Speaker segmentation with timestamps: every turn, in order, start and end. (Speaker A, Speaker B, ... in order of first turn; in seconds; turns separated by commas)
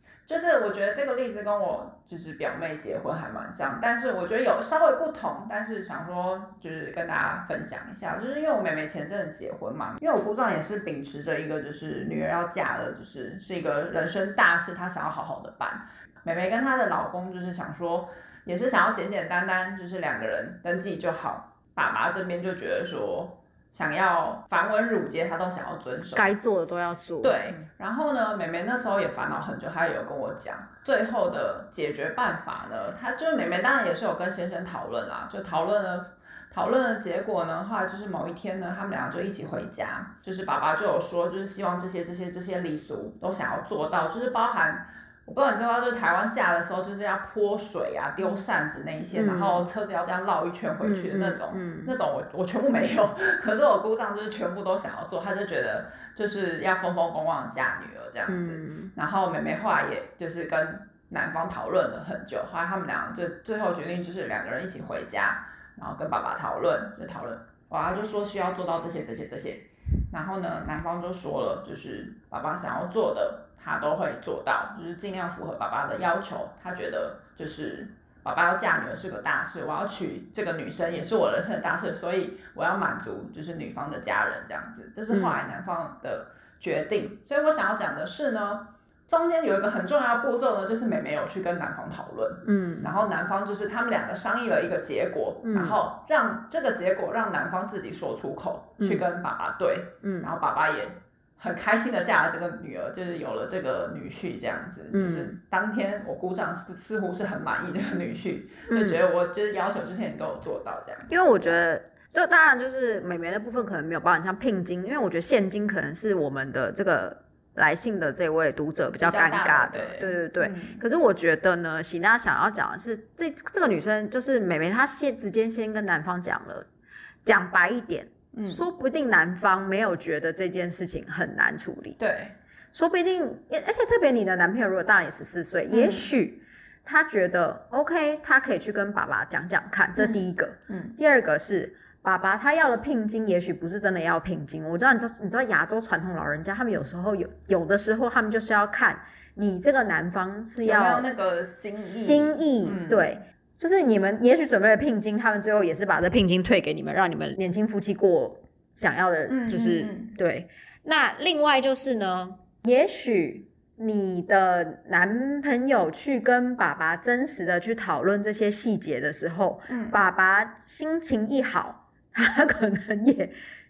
Speaker A: 0.3-26.3, Speaker B: 26.1-27.5, Speaker A: 27.2-111.6, Speaker B: 49.2-49.7, Speaker B: 50.8-52.0, Speaker B: 58.3-58.9, Speaker B: 85.1-85.4, Speaker B: 92.4-92.9, Speaker B: 95.4-95.8, Speaker B: 98.8-99.0, Speaker B: 100.0-100.3, Speaker B: 104.9-105.4, Speaker B: 108.7-109.0, Speaker B: 111.1-126.7, Speaker A: 119.0-120.8, Speaker B: 127.2-132.0, Speaker A: 128.3-128.6, Speaker A: 132.0-132.3, Speaker B: 132.7-151.1, Speaker A: 135.7-136.1, Speaker A: 140.0-141.0, Speaker A: 150.6-153.1, Speaker B: 151.8-173.3, Speaker A: 159.3-160.1, Speaker A: 169.7-170.0